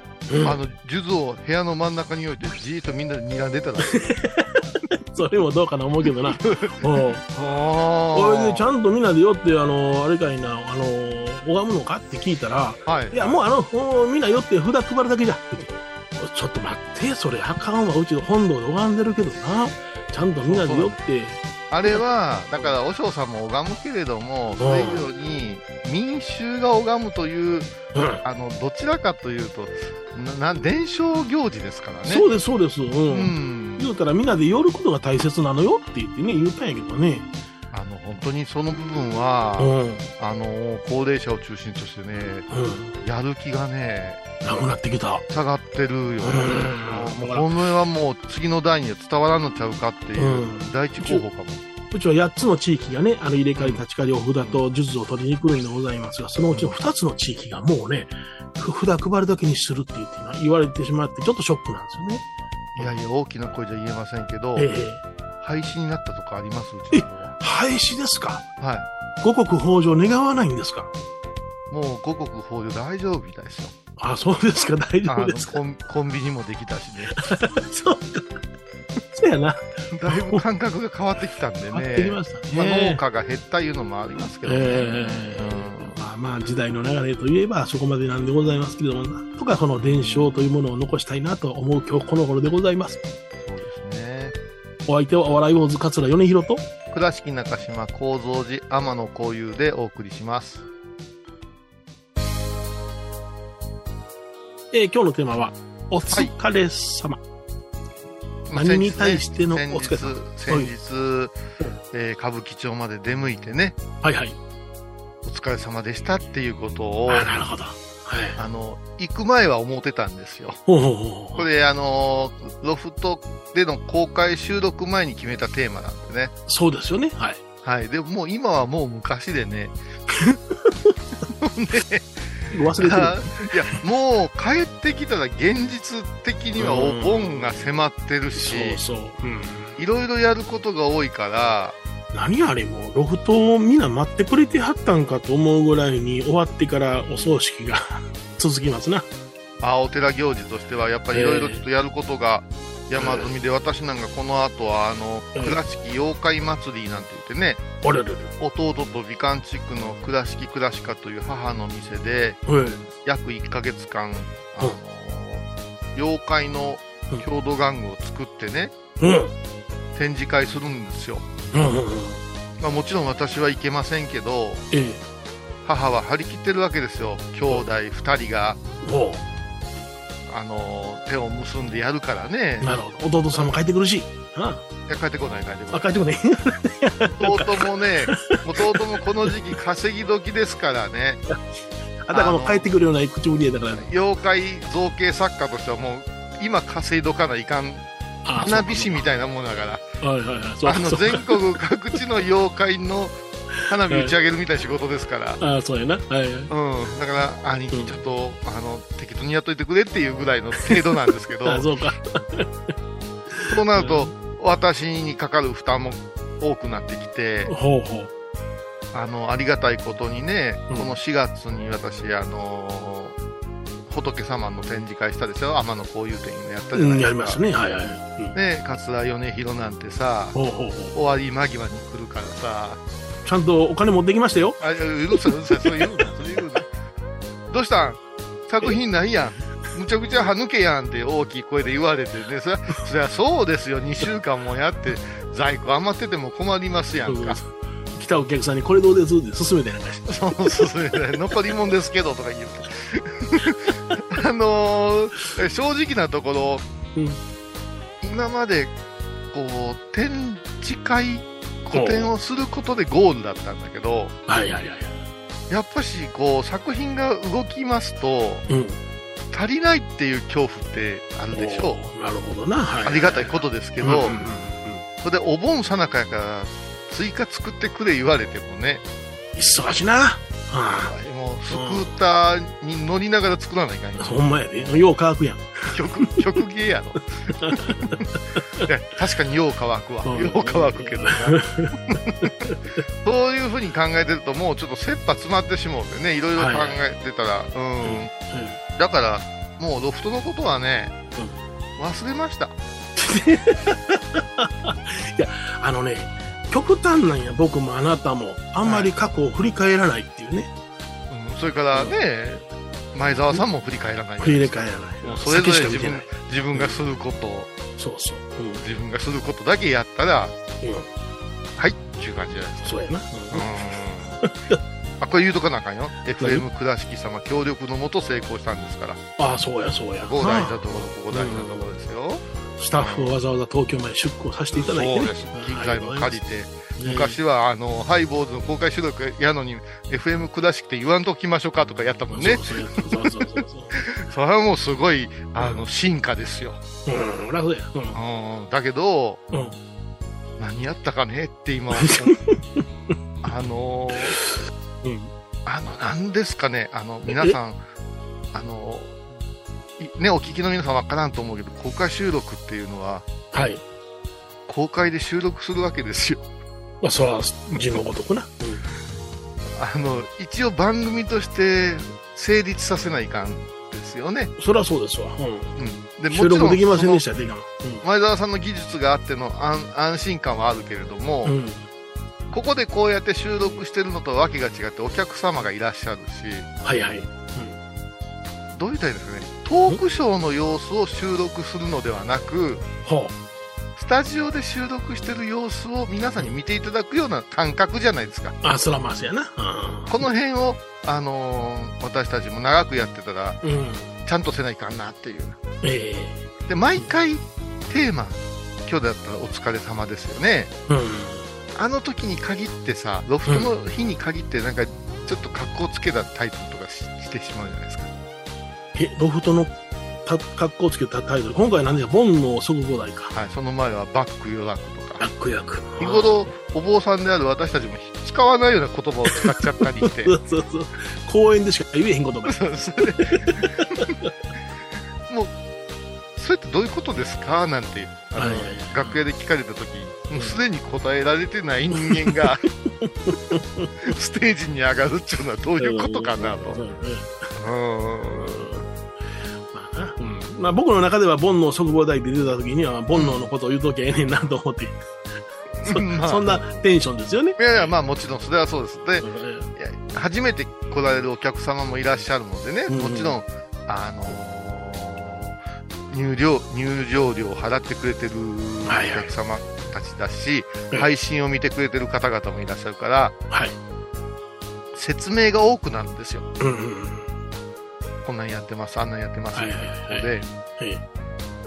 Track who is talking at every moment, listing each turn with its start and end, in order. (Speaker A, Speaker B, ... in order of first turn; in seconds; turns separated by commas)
Speaker A: 0.3-0.6, Speaker B: 0.4-4.0, Speaker A: 3.9-7.2, Speaker B: 6.3-8.7, Speaker A: 8.1-22.0, Speaker B: 12.9-13.4, Speaker B: 20.4-21.0, Speaker B: 21.7-27.7, Speaker A: 24.6-25.1, Speaker A: 27.9-28.2, Speaker B: 28.2-32.3, Speaker A: 32.1-37.3, Speaker B: 33.1-33.9, Speaker B: 37.7-42.5, Speaker A: 39.6-40.0, Speaker A: 42.5-43.0, Speaker B: 43.0-44.4, Speaker A: 44.4-45.2, Speaker B: 45.3-51.6, Speaker A: 46.2-47.5, Speaker A: 50.2-51.2, Speaker A: 51.9-62.2, Speaker B: 53.6-53.8, Speaker B: 56.5-56.8, Speaker B: 62.8-64.7, Speaker A: 64.6-65.0, Speaker B: 65.4-67.4, Speaker A: 66.9-68.4, Speaker B: 68.6-68.9, Speaker A: 69.2-70.9, Speaker B: 71.7-73.8, Speaker A: 74.0-75.6, Speaker B: 75.1-77.2, Speaker A: 77.2-78.4, Speaker A: 79.1-80.4, Speaker B: 79.9-86.0, Speaker A: 81.7-83.0, Speaker A: 84.5-93.0, Speaker B: 93.4-94.4, Speaker A: 94.9-96.7, Speaker B: 96.9-100.7, Speaker A: 104.7-107.2, Speaker B: 106.1-106.3, Speaker B: 108.5-111.4, Speaker A: 108.5-110.7, Speaker B: 111.9-113.8, Speaker A: 114.0-114.4, Speaker B: 115.2-117.4, Speaker A: 117.1-118.4, Speaker B: 118.4-120.6, Speaker A: 120.7-121.5, Speaker B: 121.4-126.3, Speaker A: 126.5-127.4, Speaker B: 127.6-129.8, Speaker B: 131.4-138.8, Speaker A: 132.5-133.5, Speaker A: 136.6-137.6, Speaker A: 138.3-139.8, Speaker B: 139.8-141.8, Speaker A: 142.1-149.1, Speaker B: 149.6-157.6, Speaker A: 151.1-151.6, Speaker A: 153.0-153.3, Speaker A: 157.8-158.3, Speaker B: 158.4-162.4, Speaker A: 162.5-162.8, Speaker B: 163.0-168.8, Speaker A: 169.0-169.3, Speaker B: 169.9-171.3, Speaker A: 171.5-172.2, Speaker B: 172.6-174.7, Speaker A: 174.7-175.0, Speaker B: 175.7-178.6, Speaker A: 178.8-179.2, Speaker B: 180.3-182.8, Speaker A: 182.6-184.6, Speaker B: 184.9-185.9, Speaker A: 185.7-188.8, Speaker B: 187.2-191.2, Speaker A: 192.1-193.9, Speaker B: 192.1-192.7, Speaker B: 193.8-197.9, Speaker A: 198.2-199.1, Speaker B: 198.4-199.9, Speaker A: 200.0-201.3, Speaker B: 200.6-205.4, Speaker A: 203.9-204.1, Speaker A: 205.4-206.5, Speaker B: 206.5-211.7, Speaker A: 207.7-208.0, Speaker A: 211.4-212.7, Speaker A: 213.3-214.1, Speaker B: 213.5-217.5, Speaker A: 217.5-218.1, Speaker B: 218.9-223.2, Speaker A: 220.7-221.0, Speaker B: 223.9-227.4, Speaker A: 226.7-228.4, Speaker B: 228.3-230.4, Speaker A: 230.3-230.9, Speaker B: 230.9-232.8, Speaker A: 233.2-234.6, Speaker B: 234.6-236.7, Speaker A: 235.6-236.1, Speaker B: 237.5-247.4, Speaker A: 247.1-250.7, Speaker B: 250.1-256.7, Speaker A: 256.9-257.2, Speaker B: 258.0-258.7, Speaker B: 259.3-264.1, Speaker A: 261.7-262.1, Speaker A: 264.3-265.0, Speaker B: 265.5-268.4, Speaker A: 268.5-268.8, Speaker B: 269.3-271.8, Speaker A: 271.3-274.8, Speaker B: 272.8-274.2, Speaker B: 275.0-278.8, Speaker A: 279.4-280.9, Speaker B: 280.8-284.8, Speaker A: 281.5-281.9, Speaker A: 284.0-286.1, Speaker B: 285.7-288.0, Speaker A: 287.3-288.7, Speaker B: 288.6-292.3, Speaker A: 290.1-292.6, Speaker B: 293.0-298.1, Speaker A: 296.4-296.8, Speaker A: 297.8-298.6, Speaker B: 298.8-300.9, Speaker B: 301.8-302.6, Speaker A: 303.0-310.5, Speaker B: 308.6-308.9, Speaker B: 311.1-317.5, Speaker A: 311.7-312.0, Speaker A: 314.2-316.8, Speaker A: 317.8-318.6, Speaker B: 318.6-320.4, Speaker A: 320.6-320.9, Speaker B: 321.6-324.2, Speaker A: 322.6-323.5, Speaker A: 324.2-324.6, Speaker B: 325.0-329.0, Speaker A: 326.2-326.4, Speaker A: 329.2-331.6, Speaker B: 330.0-333.1, Speaker A: 332.6-336.2, Speaker B: 334.6-343.3, Speaker A: 336.8-337.2, Speaker A: 342.1-343.8, Speaker B: 343.8-346.6, Speaker A: 346.9-348.0, Speaker B: 347.9-349.2, Speaker A: 349.3-349.6, Speaker B: 350.4-352.2, Speaker A: 351.8-353.0, Speaker B: 353.2-354.2, Speaker A: 354.2-355.1, Speaker B: 355.5-357.6, Speaker A: 357.1-357.4, Speaker B: 358.3-359.0, Speaker B: 359.8-363.1, Speaker A: 363.3-363.6, Speaker B: 364.5-366.3, Speaker A: 366.8-368.6, Speaker B: 369.6-374.3, Speaker A: 374.4-375.6, Speaker B: 375.6-377.0, Speaker A: 376.1-377.8, Speaker B: 377.8-381.4, Speaker A: 381.2-381.7, Speaker B: 382.3-386.5, Speaker A: 386.6-387.6, Speaker B: 388.5-392.6, Speaker A: 392.9-393.1, Speaker B: 393.8-398.4, Speaker A: 398.4-400.0, Speaker B: 399.9-403.4, Speaker A: 403.4-403.9, Speaker B: 404.1-405.4, Speaker A: 405.6-406.3, Speaker B: 406.5-410.5, Speaker A: 410.7-411.3, Speaker B: 411.5-417.9, Speaker A: 418.8-423.1, Speaker B: 423.1-425.1, Speaker A: 425.0-426.3, Speaker B: 425.8-430.1, Speaker A: 429.1-432.4, Speaker B: 432.3-433.9, Speaker A: 433.1-434.1, Speaker B: 435.1-435.3, Speaker B: 436.2-442.4, Speaker A: 438.2-439.0, Speaker A: 441.7-442.2, Speaker A: 442.8-443.7, Speaker B: 443.8-446.6, Speaker A: 445.6-447.3, Speaker B: 447.4-448.5, Speaker A: 448.3-448.6, Speaker A: 449.5-454.8, Speaker B: 452.9-453.2, Speaker B: 455.6-456.6, Speaker A: 455.6-457.4, Speaker B: 457.4-465.4, Speaker A: 459.0-459.5, Speaker A: 462.7-463.2, Speaker B: 465.9-473.2, Speaker A: 468.7-469.1, Speaker A: 473.3-473.6, Speaker B: 474.7-476.3, Speaker A: 476.4-477.1, Speaker B: 478.1-480.3, Speaker A: 479.3-480.8